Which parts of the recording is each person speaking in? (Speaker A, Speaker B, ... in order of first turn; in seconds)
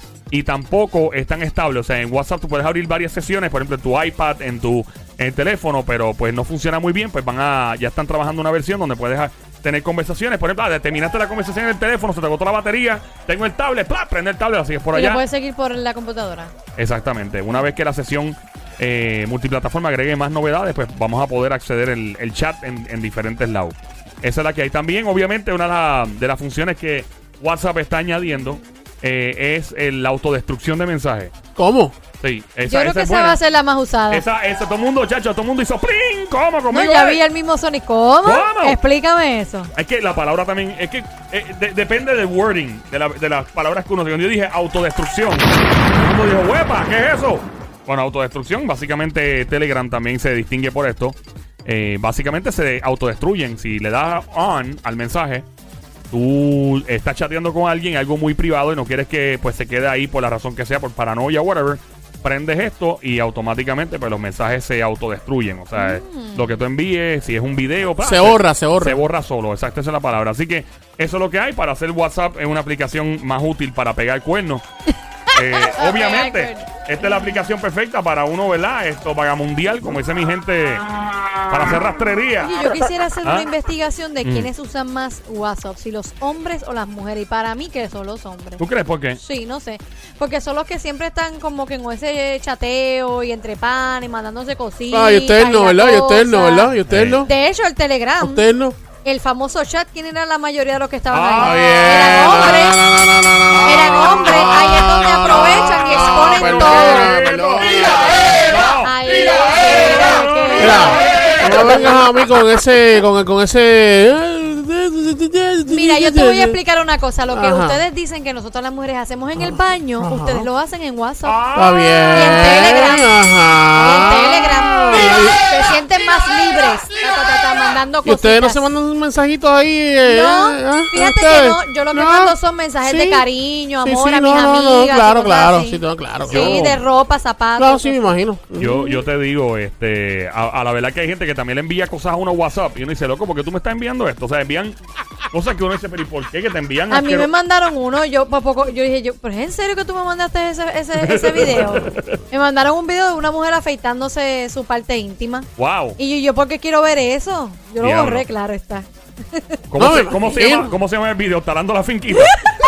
Speaker A: 0.3-15.2, 16.8-31.3, 32.2-33.4, 34.1-37.2, 38.2-38.8, 39.7-55.5, 56.1-74.6, 75.3-80.9, 81.4-82.7, 83.2-83.5, 84.2-84.5, 88.6-89.2, 96.9-97.3, 101.1-102.0, 103.5-104.6, 105.3-111.9, 121.2-122.8, 136.3-136.8, 138.6-144.8, 145.3-147.3, 151.0-152.2, 155.6-156.0, 157.8-158.2, 159.7-162.5
Speaker B: 14.9-16.5, 32.6-34.2, 36.7-39.7, 65.7-66.6, 75.4-76.7, 82.4-88.6, 89.1-98.4, 99.0-102.8, 103.6-107.2, 108.8-111.0, 111.6-111.9, 115.7-123.1, 123.7-128.7, 130.0-138.1, 146.9-159.6
Speaker C: 31.6-31.9, 68.0-69.0, 94.9-97.3, 98.2-98.8, 101.4-108.3, 110.6-116.6, 117.3-117.8, 119.3-120.5, 121.5-125.4, 128.0-133.2, 133.8-136.8, 137.6-139.0, 159.8-160.7